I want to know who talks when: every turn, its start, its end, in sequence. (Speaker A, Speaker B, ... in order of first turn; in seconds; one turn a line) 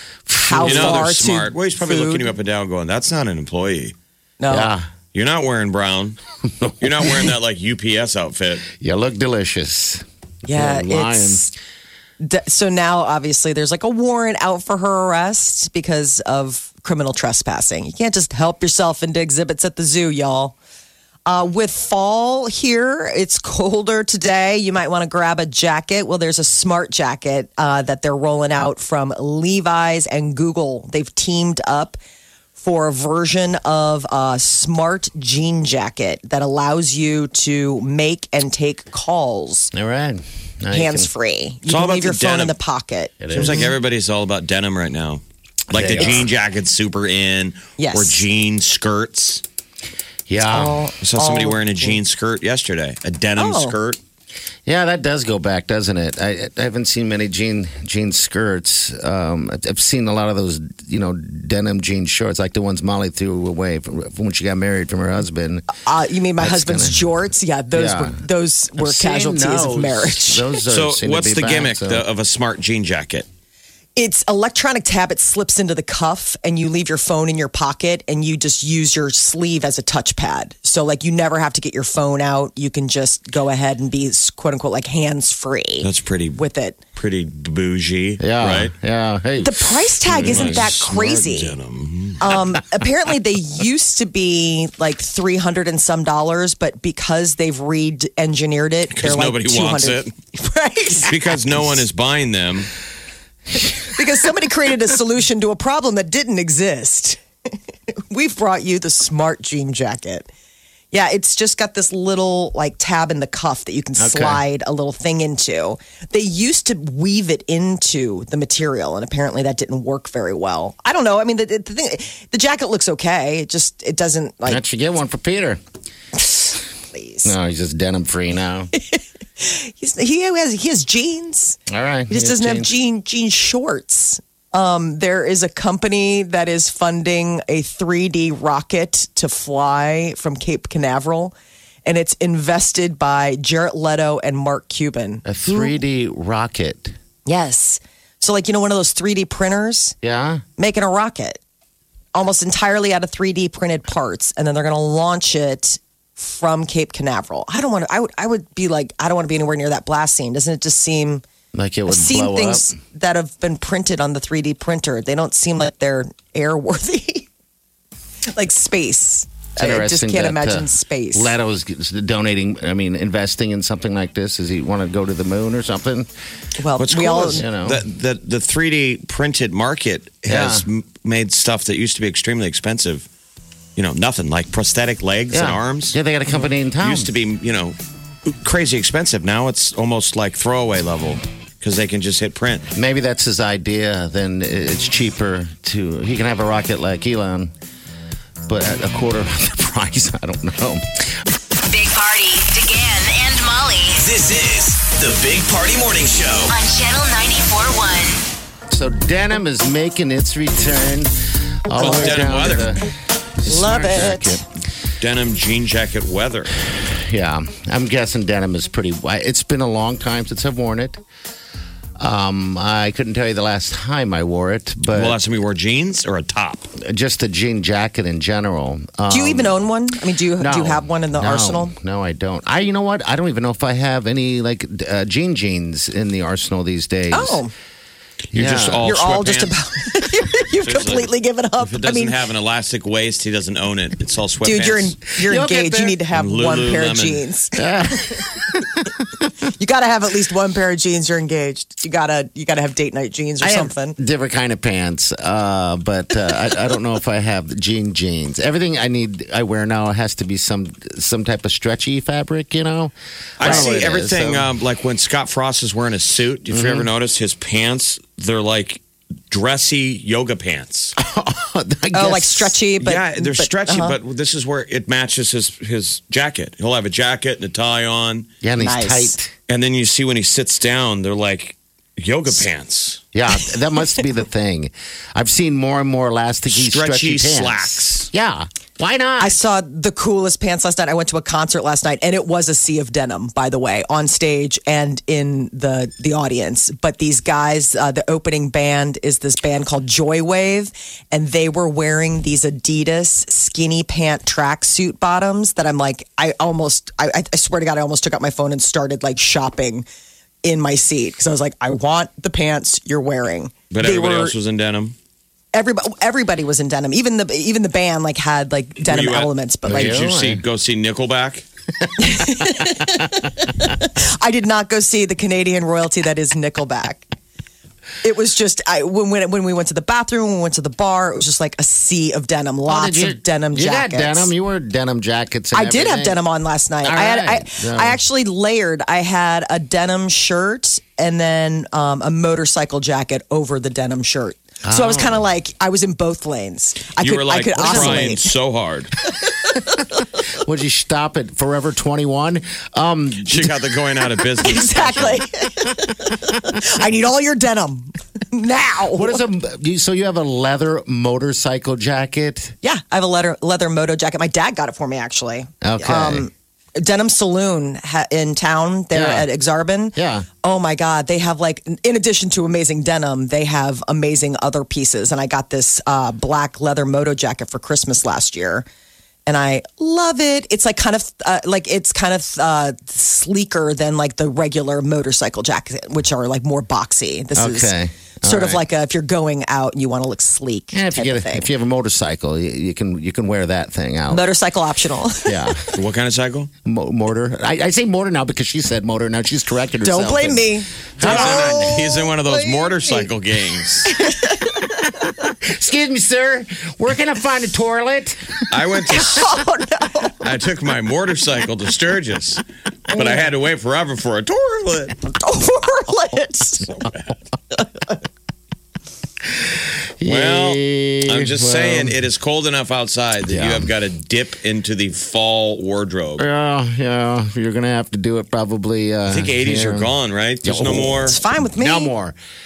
Speaker A: 0.3-1.1
Speaker B: 0.4-2.3
Speaker C: 0.6-4.0
Speaker B: 4.4-4.7
Speaker A: 4.5-4.9
Speaker C: 5.1-6.2
Speaker A: 6.6-7.3
Speaker C: 6.8-8.7
Speaker A: 8.7-11.5
Speaker B: 10.5-11.5
Speaker B: 12.2-20.6
Speaker B: 21.3-32.0
Speaker B: 32.6-39.7
Speaker A: 39.7-41.1
Speaker B: 40.7-43.7
Speaker C: 41.7-42.6
Speaker A: 43.2-43.7
Speaker C: 43.3-49.4
Speaker A: 45.7-46.3
Speaker B: 45.8-46.2
Speaker B: 47.8-48.2
Speaker A: 50.3-50.9
Speaker B: 50.5-52.0
Speaker C: 51.0-54.0
Speaker B: 53.4-53.8
Speaker A: 54.7-65.7
Speaker B: 65.7-70.6
Speaker A: 66.4-67.2
Speaker A: 67.7-68.2
Speaker A: 68.8-72.1
Speaker C: 70.7-73.3
Speaker B: 74.0-86.8
Speaker C: 85.8-86.4
Speaker C: 87.0-88.7
Speaker A: 88.2-90.7
Speaker B: 89.4-91.6
Speaker C: 90.2-92.4
Speaker B: 92.2-101.8
Speaker C: 98.9-100.1
Speaker C: 101.0-102.7
Speaker B: 103.8-107.2
Speaker B: 107.9-110.3
Speaker B: 110.9-124.6
Speaker A: 114.0-114.4
Speaker A: 124.5-125.6
Speaker B: 126.2-127.3
Speaker A: 127.2-128.7
Speaker B: 128.7-131.6
Speaker A: 131.7-132.7
Speaker B: 132.1-141.3
Speaker B: 141.8-145.8
Speaker A: 145.2-146.9
Speaker B: 147.2-150.0
Speaker A: 150.0-150.4
Speaker B: 150.6-151.4
Speaker B: 152.1-161.2
Speaker A: 161.5-162.8
Speaker B: 161.9-167.3
Speaker B: 168.3-171.4
Speaker A: 169.6-176.1
Speaker B: 176.6-177.5
Speaker C: 176.8-183.1
Speaker A: 177.3-177.8
Speaker A: 180.3-180.7
Speaker C: 183.8-186.0
Speaker A: 185.3-187.1
Speaker C: 186.8-192.7
Speaker A: 192.7-197.5
Speaker A: 198.5-201.2
Speaker D: 201.6-204.0
Speaker E: 204.0-206.6
Speaker D: 206.5-208.2
Speaker A: 208.7-211.1
Speaker A: 211.7-214.4
Speaker C: 211.7-212.7
Speaker B: 211.8-212.3
Speaker B: 213.5-214.4
Speaker C: 215.0-216.6
Speaker A: 216.7-221.0
Speaker A: 222.0-225.2
Speaker C: 224.9-226.7
Speaker A: 226.8-229.6
Speaker B: 229.1-231.7
Speaker A: 230.4-237.4
Speaker B: 237.1-237.5
Speaker C: 238.3-239.6
Speaker A: 238.3-238.9
Speaker B: 238.8-242.2
Speaker C: 240.6-245.1
Speaker B: 244.4-248.8
Speaker A: 245.2-246.0
Speaker C: 246.1-247.2
Speaker A: 247.6-248.7
Speaker B: 249.4-254.0
Speaker A: 253.4-264.5
Speaker C: 263.4-270.9
Speaker B: 263.4-263.7
Speaker A: 266.5-266.9
Speaker A: 271.0-272.6
Speaker B: 271.9-274.0
Speaker C: 272.8-278.3
Speaker A: 278.4-279.3
Speaker B: 278.6-279.2
Speaker C: 279.5-283.0
Speaker A: 283.1-289.4
Speaker C: 286.5-288.1
Speaker B: 289.2-309.9
Speaker B: 310.4-314.4
Speaker C: 313.7-314.9
Speaker B: 315.5-320.1
Speaker C: 318.9-321.4
Speaker A: 319.6-320.4
Speaker A: 321.9-322.8
Speaker B: 322.0-327.1
Speaker B: 328.0-334.3
Speaker A: 332.7-336.2
Speaker B: 335.5-348.3
Speaker A: 336.8-338.0
Speaker A: 344.6-345.2
Speaker C: 347.0-348.9
Speaker A: 347.7-348.1
Speaker B: 349.2-349.7
Speaker A: 350.4-353.6
Speaker C: 353.2-355.2
Speaker B: 354.4-359.2
Speaker A: 358.9-362.6
Speaker B: 362.6-378.7
Speaker A: 365.6-366.3
Speaker A: 368.9-369.3
Speaker A: 370.0-370.3
Speaker B: 379.3-391.5
Speaker A: 387.4-388.6
Speaker A: 390.7-394.3
Speaker B: 394.1-395.8
Speaker A: 395.2-395.6
Speaker C: 395.8-396.5
Speaker A: 396.6-401.8
Speaker B: 399.8-403.1
Speaker C: 401.0-403.9
Speaker B: 403.9-404.6
Speaker A: 405.2-408.4
Speaker C: 408.5-409.4
Speaker B: 408.9-410.3
Speaker C: 410.2-415.0
Speaker B: 412.9-413.2
Speaker B: 415.1-416.8
Speaker A: 419.4-422.0
Speaker C: 420.0-426.3
Speaker A: 423.2-423.7
Speaker A: 426.2-432.2
Speaker C: 429.1-431.2
Speaker B: 431.0-431.9